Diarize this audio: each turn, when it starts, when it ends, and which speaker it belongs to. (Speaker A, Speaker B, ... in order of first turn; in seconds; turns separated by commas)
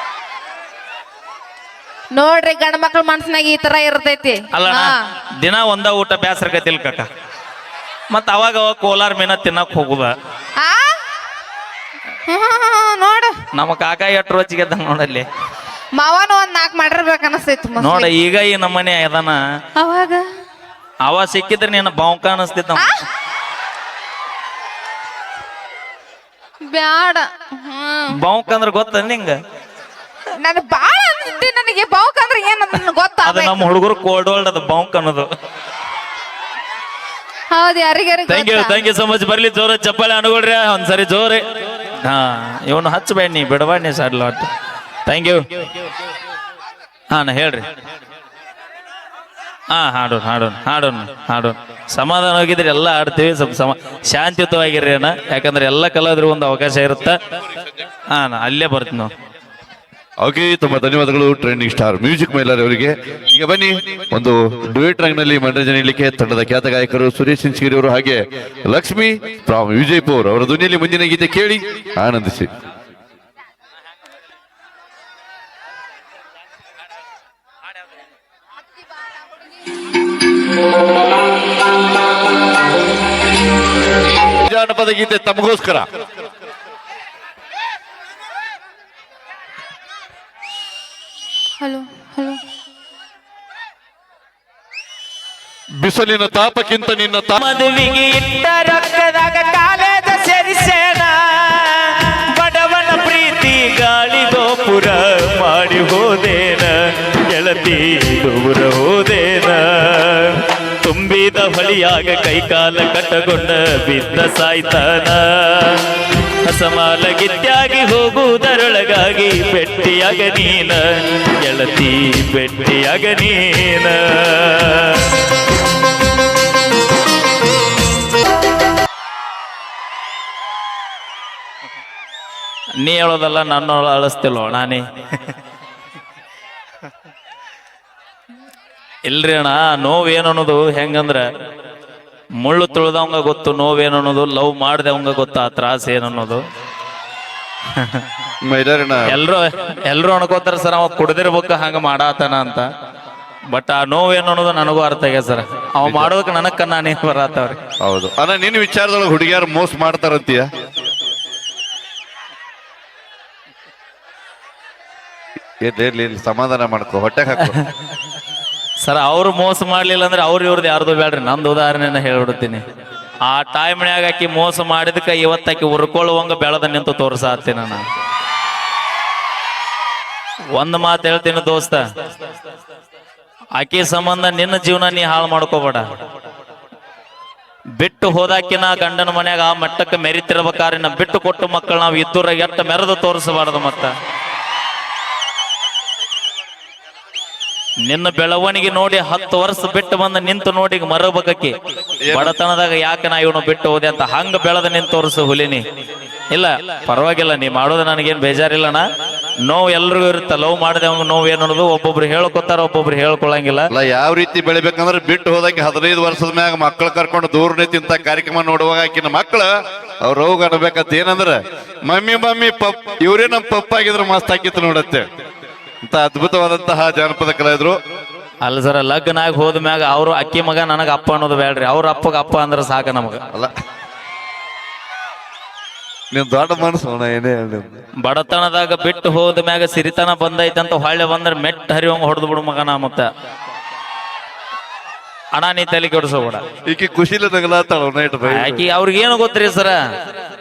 Speaker A: 2.1-5.0, Speaker B: 4.5-7.1, Speaker B: 8.1-10.1, Speaker A: 10.6-11.0, Speaker A: 12.3-13.4, Speaker B: 13.5-15.3, Speaker A: 15.9-18.1, Speaker B: 17.8-19.4, Speaker A: 19.8-20.3, Speaker B: 21.1-22.9, Speaker A: 22.8-23.0, Speaker A: 26.7-28.2, Speaker B: 28.1-29.4, Speaker A: 30.4-33.6, Speaker B: 33.2-35.3, Speaker A: 37.5-38.8, Speaker B: 38.3-44.5, Speaker B: 45.1-45.5, Speaker B: 47.1-47.6, Speaker B: 49.7-57.2, Speaker B: 58.1-59.1, Speaker C: 60.2-72.5, Speaker C: 84.5-85.9, Speaker A: 91.6-92.4, Speaker C: 95.8-97.4, Speaker B: 97.4-115.9, Speaker B: 116.4-125.2, Speaker B: 132.8-134.8, Speaker B: 139.1-141.2, Speaker B: 142.4-146.4, Speaker B: 147.8-148.1, Speaker C: 148.4-149.2, Speaker B: 149.1-152.7, Speaker B: 153.5-157.6, Speaker C: 155.8-156.1, Speaker C: 157.8-160.5, Speaker C: 165.6-167.6, Speaker B: 168.8-172.6, Speaker B: 173.2-177.8, Speaker B: 180.6-181.8, Speaker B: 183.6-185.8, Speaker B: 187.8-193.9, Speaker B: 197.8-201.6, Speaker C: 202.0-202.3, Speaker B: 202.1-205.6, Speaker B: 206.3-208.9, Speaker B: 209.4-213.7, Speaker C: 213.7-219.5, Speaker C: 220.0-225.1, Speaker C: 225.8-227.8, Speaker B: 228.4-233.2, Speaker C: 236.1-237.8, Speaker B: 238.0-243.1, Speaker B: 245.3-246.4, Speaker C: 246.7-248.7, Speaker B: 248.3-249.8